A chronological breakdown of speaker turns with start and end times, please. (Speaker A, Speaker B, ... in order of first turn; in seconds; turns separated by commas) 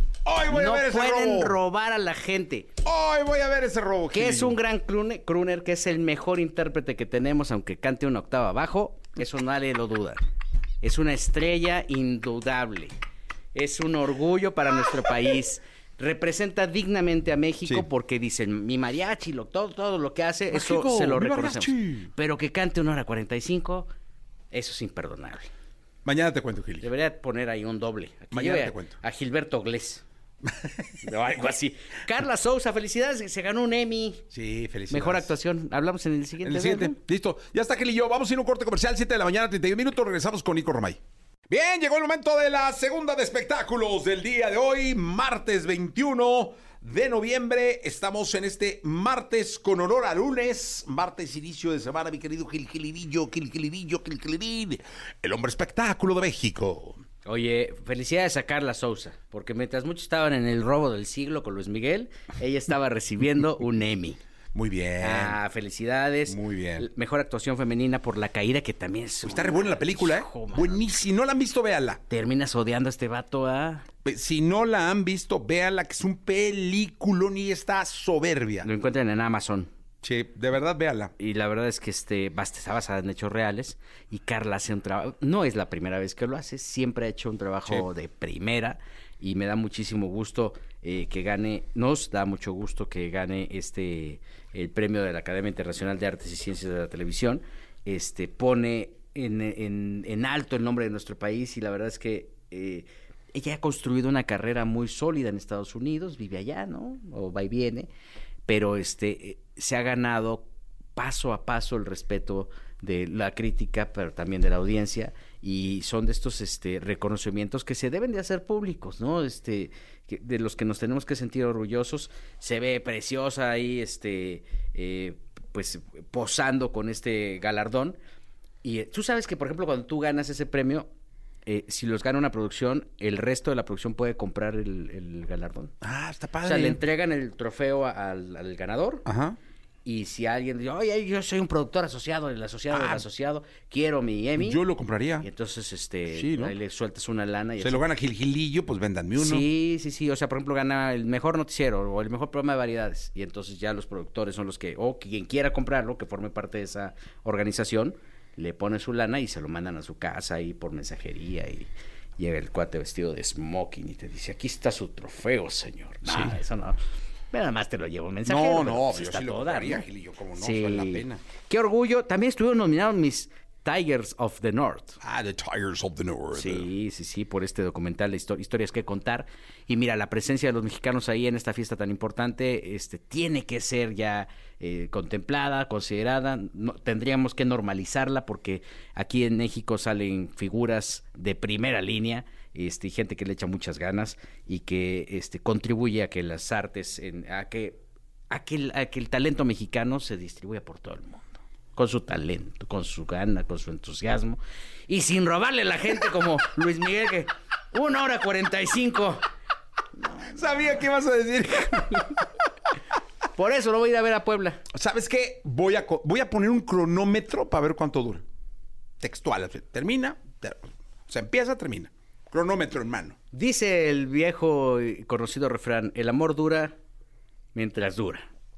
Speaker A: 0.2-1.6, Speaker B: 0.5-2.7, Speaker A: 2.8-4.6, Speaker B: 4.1-10.2, Speaker B: 10.8-12.9, Speaker B: 13.5-23.9, Speaker A: 20.5-22.1, Speaker B: 24.5-25.5, Speaker A: 26.0-26.9, Speaker B: 26.8-30.0, Speaker A: 28.3-28.9, Speaker A: 30.4-31.0, Speaker B: 31.0-34.2, Speaker A: 34.3-35.3, Speaker B: 34.9-37.0, Speaker A: 36.4-41.0, Speaker A: 41.5-57.0, Speaker B: 57.2-64.2, Speaker A: 64.5-65.4, Speaker B: 65.0-70.9, Speaker A: 66.3-66.9, Speaker A: 69.2-72.0, Speaker B: 72.1-73.9, Speaker A: 74.0-78.7, Speaker B: 78.6-79.7, Speaker A: 80.0-81.1, Speaker B: 81.2-107.9, Speaker B: 108.5-128.0, Speaker B: 128.6-130.9, Speaker B: 131.4-135.7, Speaker A: 135.8-136.8, Speaker B: 136.4-139.0, Speaker A: 139.1-139.4, Speaker B: 139.8-144.6, Speaker A: 142.7-143.1, Speaker A: 144.4-145.2, Speaker B: 145.2-147.9, Speaker A: 146.1-146.6, Speaker A: 147.6-149.5, Speaker B: 149.2-166.8, Speaker A: 166.0-166.4, Speaker B: 167.3-175.0, Speaker A: 168.2-171.2, Speaker A: 175.0-176.7, Speaker B: 176.3-209.2, Speaker B: 210.0-210.7, Speaker A: 210.2-212.3, Speaker B: 213.3-214.6, Speaker A: 214.7-218.2, Speaker A: 219.0-223.2, Speaker B: 223.3-226.8, Speaker B: 227.5-228.3